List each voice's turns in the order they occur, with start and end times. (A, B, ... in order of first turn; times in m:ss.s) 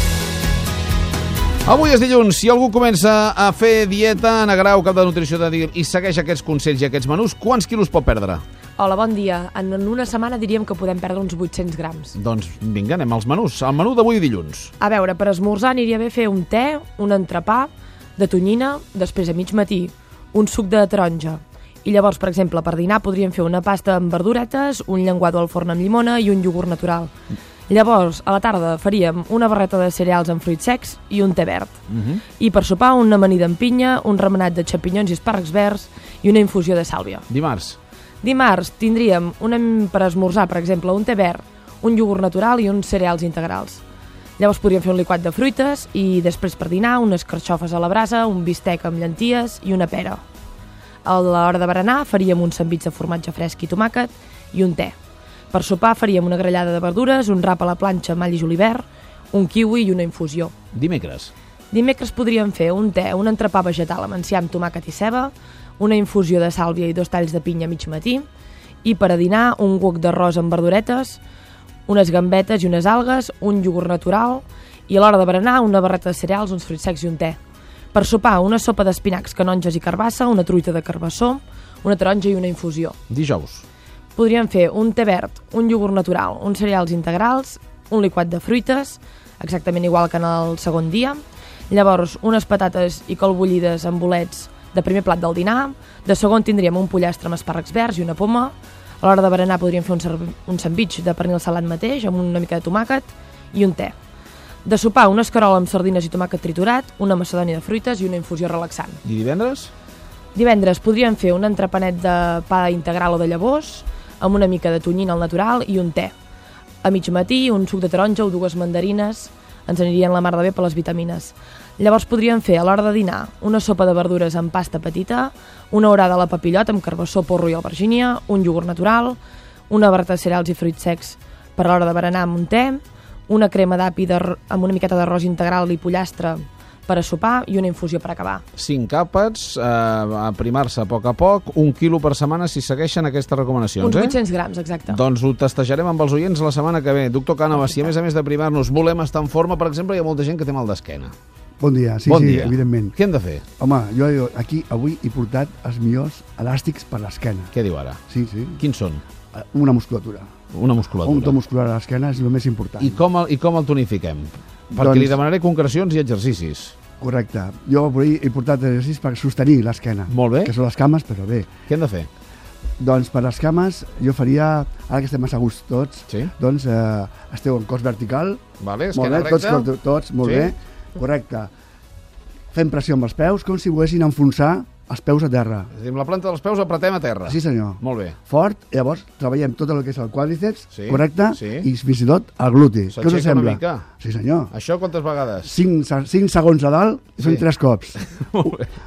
0:01.6-0:08.4 A
0:08.8-0:12.1 B
0:12.2-0:14.7 A
0:14.8-0:27.1 B
0:27.7-0:31.8 B
0:31.9-0:32.2 A
0:32.4-0:37.2 B
0:37.3-0:37.8 A
0:38.2-0:43.8 B
0:44.4-0:50.2 B
0:51.0-0:55.0 B
0:55.5-1:00.5 B
1:00.7-1:01.3 A
1:01.7-1:08.3 B
1:08.8-1:11.2 B
1:11.9-1:17.4 B
1:17.9-1:23.0 B
1:23.1-1:23.6 A
1:24.1-1:43.9 B
1:44.6-1:49.0 B
1:49.0-1:49.7 A
1:50.3-1:56.1 B
1:56.8-2:09.2 B
2:09.7-2:18.4 B
2:18.6-2:24.1 A
2:23.8-2:25.0 B
2:24.9-2:31.1 A
2:31.6-2:32.9 C
2:32.1-2:33.4 A
2:33.6-2:37.5 C
2:37.5-2:38.0 A
2:38.1-2:38.6 C
2:38.6-2:39.0 A
2:39.3-2:40.3 C
2:40.5-2:41.4 A
2:41.0-2:43.0 C
2:42.8-2:46.8 A
2:44.7-2:45.2 C
2:47.0-2:51.5 C
2:50.1-2:50.5 A
2:51.7-2:52.1 A
2:52.8-2:58.4 C
2:58.6-2:59.7 A
2:58.9-3:01.5 C
3:00.2-3:00.5 A
3:02.5-3:05.7 C
3:05.7-3:08.2 A
3:07.2-3:14.5 C
3:10.7-3:11.7 A
3:12.9-3:13.8 A
3:14.5-3:15.5 A
3:15.4-3:18.0 C
3:17.2-3:17.4 A
3:18.2-3:18.7 A